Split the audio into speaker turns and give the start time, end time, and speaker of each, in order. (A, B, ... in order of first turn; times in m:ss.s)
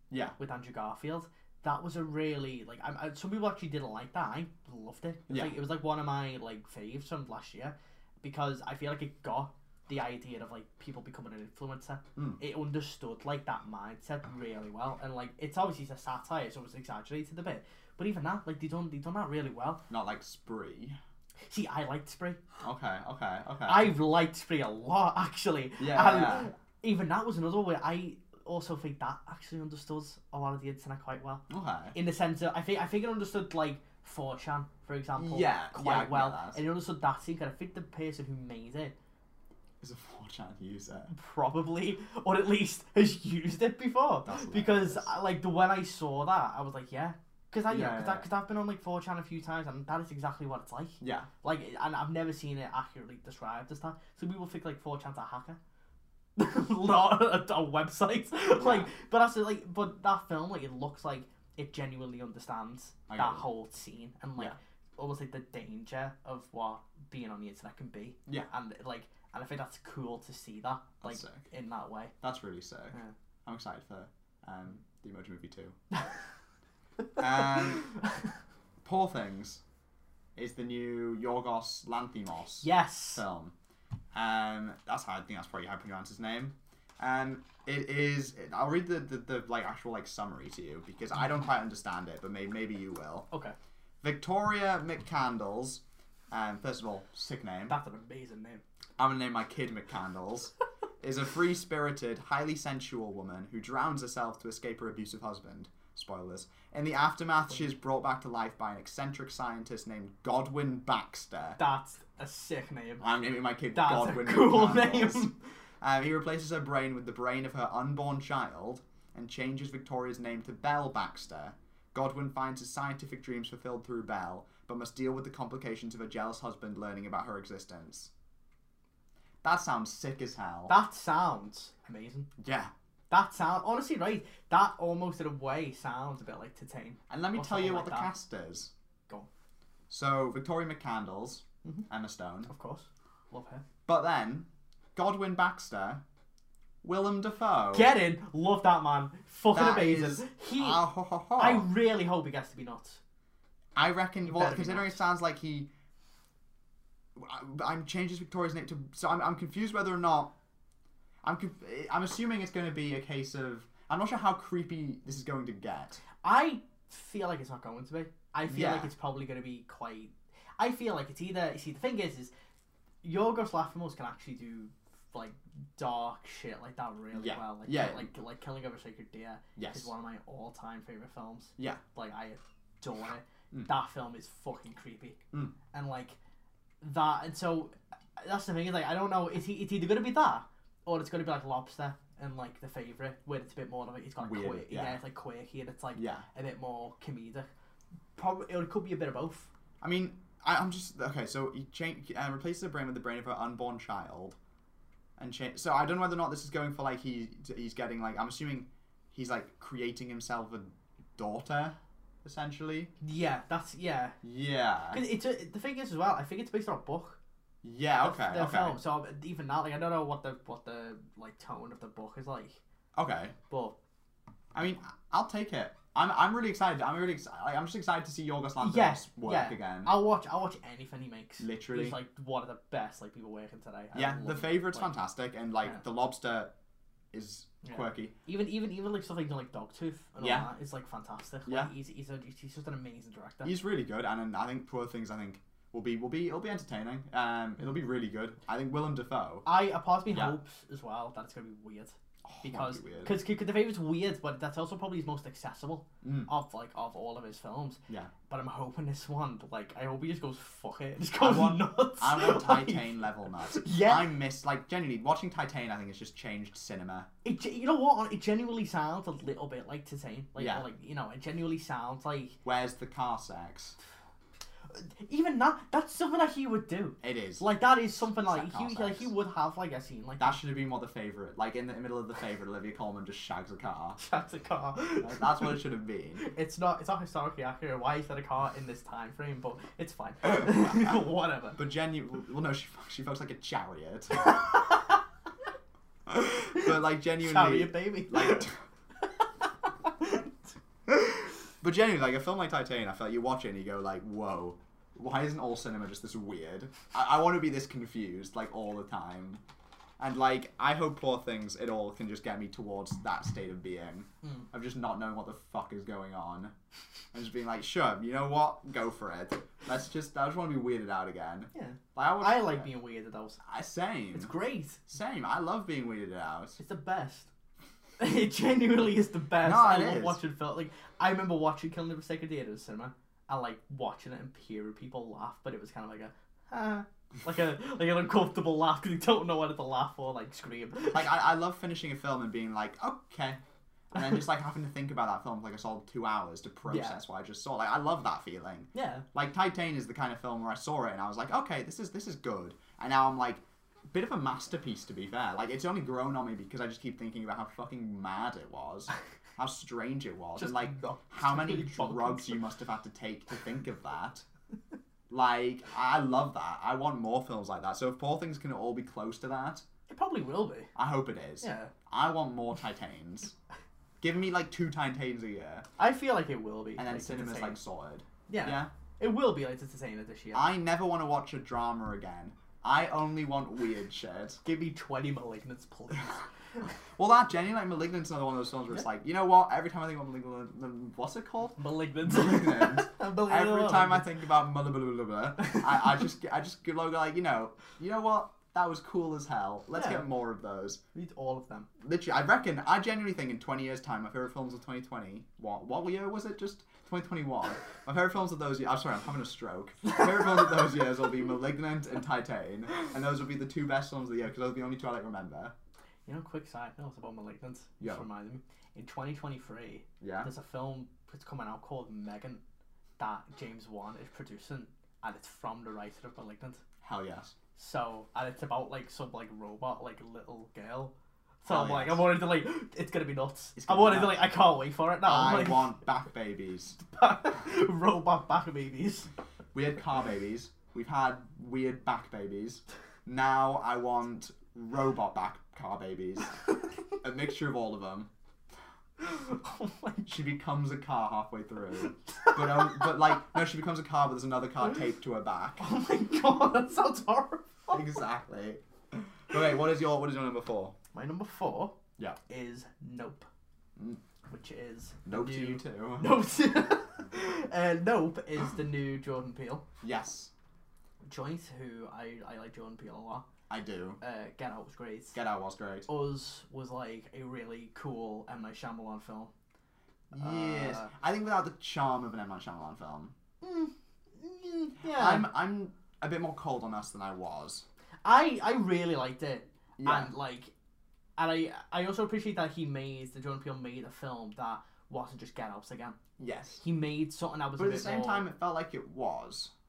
0:00.1-0:00.4 A
0:00.4-0:19.8 B
0:05.3-0:05.5 A
0:19.9-0:21.0 A
0:21.5-0:22.4 B
0:22.6-0:23.9 A
0:23.6-0:38.9 B
0:25.8-0:26.5 A
0:31.5-0:32.0 A
0:35.2-0:36.6 A
0:39.8-0:41.1 A
0:41.1-0:55.6 B
0:44.2-0:45.1 A
0:47.7-0:48.3 A
0:51.0-0:51.3 A
0:56.4-1:12.1 B
0:58.6-0:58.9 A
1:03.1-1:03.5 A
1:11.0-1:11.5 A
1:12.2-1:15.8 A
1:17.2-1:17.9 A
1:18.8-1:19.6 A
1:20.4-1:23.5 A
1:22.6-1:23.2 B
1:24.1-1:33.3 A
1:34.0-1:37.8 A
1:37.7-1:38.6 B
1:39.0-1:51.6 A
1:51.6-1:53.0 B
1:53.0-1:55.3 A
1:53.7-1:55.3 B
1:55.8-2:08.1 A
2:09.4-2:10.8 A
2:10.7-2:12.3 B
2:12.4-2:12.7 A
2:13.1-2:18.1 B
2:17.1-2:18.7 A
2:19.9-2:22.5 A
2:22.5-2:23.6 B
2:23.8-2:26.0 A
2:26.8-2:27.9 A
2:27.7-2:30.8 B
2:29.5-2:31.7 A
2:31.4-2:33.0 B
2:33.8-2:35.7 A
2:34.2-2:35.0 B
2:37.2-2:40.3 A
2:41.2-2:46.0 A
2:46.2-2:52.3 B
2:48.5-2:48.9 A
2:53.0-3:05.2 B
2:57.1-2:58.1 A
2:59.6-2:59.9 A
3:01.6-3:01.8 A
3:05.7-3:06.2 B
3:06.8-3:17.5 B
3:14.2-3:15.0 A
3:15.9-3:16.2 A
3:18.2-3:19.5 B
3:19.8-3:24.4 A
3:25.2-3:32.9 A
3:33.0-3:34.2 B
3:34.2-3:35.0 A
3:34.9-3:37.2 B
3:37.6-3:38.8 A
3:38.0-3:42.6 B
3:43.0-3:43.3 A
3:43.5-3:43.8 B
3:44.5-3:49.9 A
3:48.6-3:54.9 B
3:51.4-3:52.0 A
3:53.9-3:56.5 A
3:57.1-3:58.1 A
3:57.6-4:03.5 B
4:00.2-4:00.5 A
4:01.5-4:01.7 A
4:03.4-4:09.5 A
4:09.4-4:22.9 B
4:10.1-4:10.4 A
4:12.2-4:13.1 A
4:16.0-4:16.3 A
4:21.2-4:27.1 A
4:23.4-4:24.1 B
4:27.2-4:32.4 B
4:30.4-4:30.6 A
4:32.4-4:33.8 A
4:34.7-4:40.4 B
4:37.0-4:39.1 A
4:40.2-4:44.0 A
4:44.0-4:45.6 B
4:45.0-4:46.2 A
4:46.2-4:51.6 B
4:51.5-4:54.5 A
4:56.1-4:58.6 A
4:57.2-4:58.5 B
4:59.2-5:00.3 B
5:00.9-5:09.4 A
5:10.0-5:16.5 A
5:17.1-5:22.7 A
5:21.5-5:23.4 B
5:23.4-5:24.3 A
5:24.1-5:24.8 B
5:24.9-5:26.6 A
5:26.6-5:27.3 B
5:28.0-5:41.1 B
5:29.4-5:30.2 A
5:40.9-5:43.4 A
5:43.9-6:04.2 A
5:46.6-5:47.0 B
5:48.7-5:49.0 B
6:00.4-6:02.4 B
6:05.1-6:09.6 A
6:09.9-6:10.7 B
6:10.7-6:13.3 A
6:11.4-6:11.7 B
6:14.0-6:15.6 A
6:15.8-6:17.6 B
6:16.8-6:18.7 A
6:18.3-6:20.5 B
6:20.3-6:24.4 A
6:24.4-6:26.3 B
6:27.0-6:40.8 A
6:31.6-6:34.1 B
6:35.5-6:36.0 B
6:39.7-6:40.1 B
6:40.9-6:41.7 B
6:41.8-6:55.5 A
6:56.0-7:02.4 B
6:57.8-6:58.0 A
7:00.0-7:00.3 A
7:03.0-7:06.6 B
7:06.8-7:07.3 A
7:07.6-7:15.7 B
7:11.4-7:12.1 A
7:13.6-7:14.3 A
7:15.0-7:16.8 A
7:16.8-7:19.1 B
7:19.5-7:26.3 A
7:27.0-7:28.1 A
7:29.0-7:30.1 B
7:30.0-7:35.6 A
7:32.2-7:32.9 B
7:35.6-7:37.9 B
7:37.7-7:40.7 A
7:40.9-7:41.8 B
7:42.3-7:43.3 B
7:44.3-7:49.6 B
7:45.0-7:46.1 A
7:49.8-7:50.3 A
7:51.0-7:53.2 B
7:53.5-7:54.0 A
7:54.0-7:55.2 B
7:55.1-7:55.9 A
7:55.9-7:59.3 B
8:00.1-8:03.1 A
8:00.2-8:00.9 B
8:03.4-8:05.3 B
8:04.8-8:07.6 A
8:08.0-8:10.5 B
8:09.8-8:10.1 A
8:11.2-8:16.0 B
8:16.2-8:16.6 A
8:16.6-8:18.3 B
8:17.6-8:19.5 A